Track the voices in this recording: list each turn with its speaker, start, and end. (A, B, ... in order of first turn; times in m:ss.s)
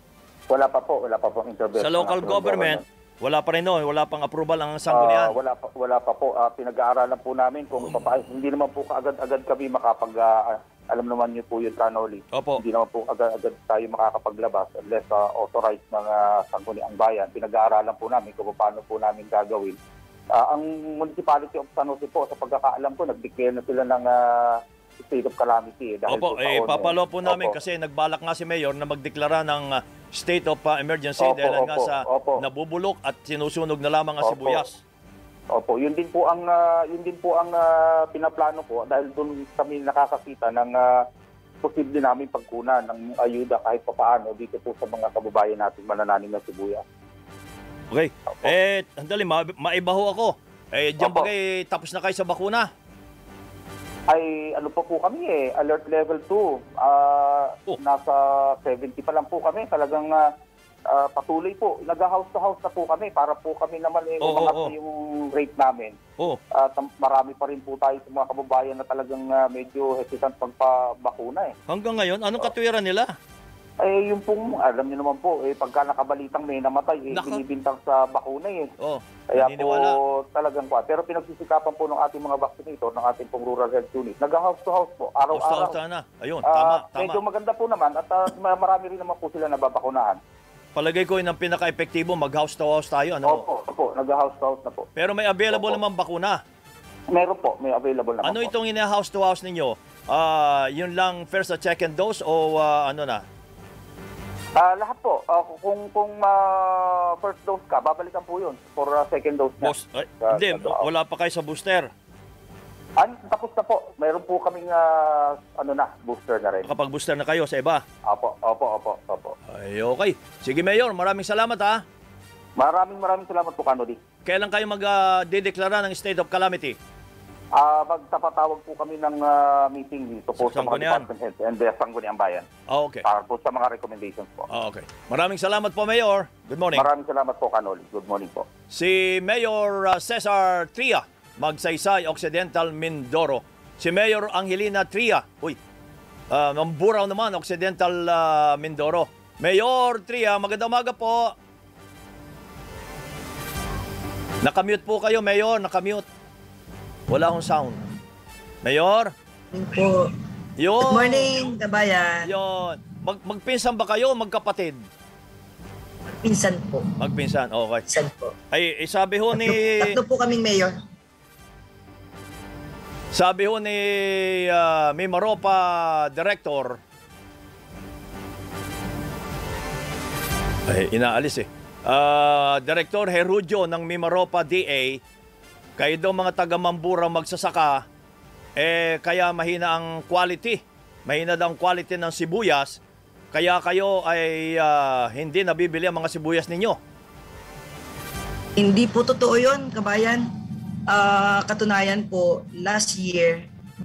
0:00.5-0:02.8 A
0:01.8-0:05.4 B
0:04.9-0:19.8 A
0:12.3-0:12.6 B
0:20.3-0:27.6 A
0:26.1-0:34.8 B
0:31.2-0:32.4 A
0:34.2-0:34.6 A
0:35.5-0:40.9 A
0:41.6-0:46.8 A
0:47.9-0:52.7 B
0:51.0-0:51.3 A
0:54.1-1:00.2 A
1:00.9-1:06.0 A
1:04.2-1:04.7 B
1:06.6-1:11.5 A
1:11.7-1:13.1 B
1:13.8-1:18.7 A
1:17.1-1:17.4 B
1:18.8-1:19.9 B
1:19.3-1:25.8 A
1:25.3-1:27.2 B
1:26.5-1:30.2 A
1:30.8-1:33.4 B
1:33.2-1:34.9 A
1:35.0-1:36.4 B
1:35.5-1:35.8 A
1:37.1-1:38.5 A
1:38.2-1:43.2 B
1:44.6-1:50.8 A
1:49.6-1:51.9 B
1:53.0-1:56.7 A
1:56.6-1:57.8 B
1:58.1-1:59.3 A
1:59.5-2:01.8 B
2:02.6-2:04.0 A
2:04.3-2:06.8 B
2:07.6-2:12.5 A
2:10.4-2:11.1 B
2:12.7-2:13.0 B
2:13.0-2:14.5 A
2:14.5-2:16.9 B
2:16.7-2:18.5 A
2:18.7-2:25.6 B
2:26.3-2:31.3 B
2:34.4-2:36.0 B
2:37.1-2:37.8 B
2:38.6-2:39.1 B
2:39.5-2:40.1 C
2:40.6-2:41.5 B
2:40.8-2:42.3 C
2:42.2-2:44.8 B
2:46.2-2:46.9 C
2:47.0-2:47.8 B
2:47.9-2:48.3 C
2:48.5-2:50.0 B
2:49.3-2:50.8 C
2:53.1-2:56.8 B
3:00.7-3:05.0 B
3:05.8-3:07.8 B
3:08.6-3:12.8 B
3:13.3-3:16.8 B
3:18.6-3:20.3 C
3:20.9-3:23.5 C